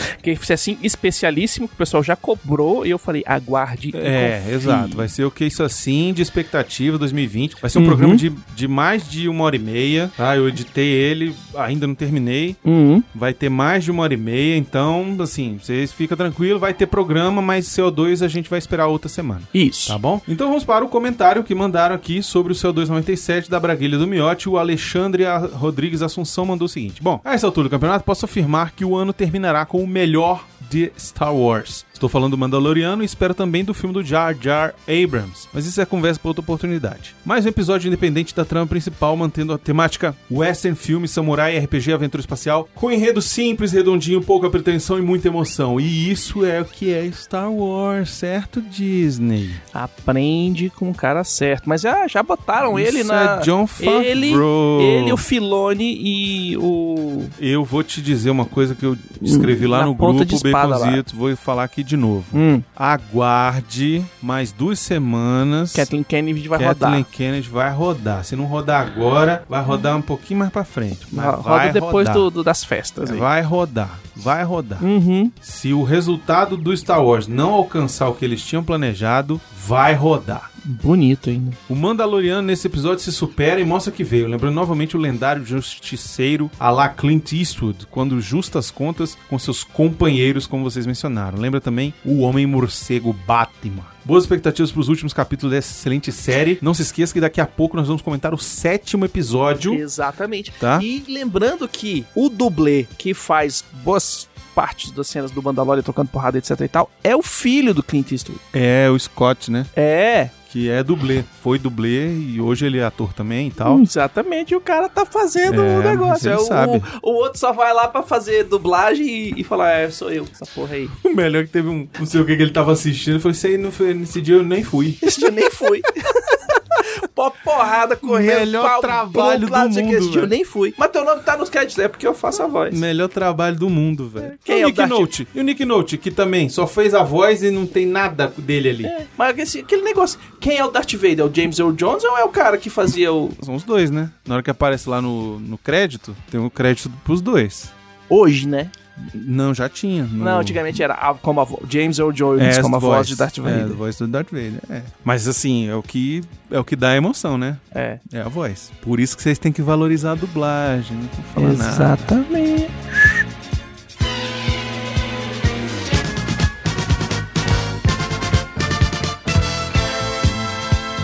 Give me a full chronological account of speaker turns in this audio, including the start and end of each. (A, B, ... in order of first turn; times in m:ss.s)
0:00.2-0:05.0 A
0:03.9-0:12.6 B
0:07.8-0:08.2 A
0:12.6-0:13.1 A
0:13.1-0:49.6 B
0:19.5-0:20.0 A
0:49.7-0:57.3 A
0:52.7-0:55.2 B
0:57.4-1:05.9 B
0:59.2-1:01.0 A
1:02.3-1:02.6 A
1:05.7-1:07.1 A
1:06.6-1:12.3 B
1:11.1-1:13.3 A
1:13.0-1:14.9 B
1:14.8-1:15.3 A
1:15.4-1:20.5 B
1:20.6-1:21.6 A
1:21.7-1:39.8 B
1:39.7-1:48.4 A
1:40.6-1:40.9 B
1:48.5-1:49.7 B
1:49.8-1:50.3 A
1:50.5-1:53.8 B
1:53.6-2:01.0 A
1:55.5-1:56.9 B
2:01.0-2:05.0 B
2:05.0-2:12.8 A
2:08.0-2:10.3 B
2:12.7-2:18.9 B
2:14.3-2:15.1 A
2:18.8-2:23.4 A
2:23.4-2:27.7 B
2:28.1-2:28.7 A
2:29.0-2:30.7 B
2:30.2-2:33.8 A
2:32.4-2:42.0 B
2:37.7-2:38.0 A
2:41.4-2:42.8 A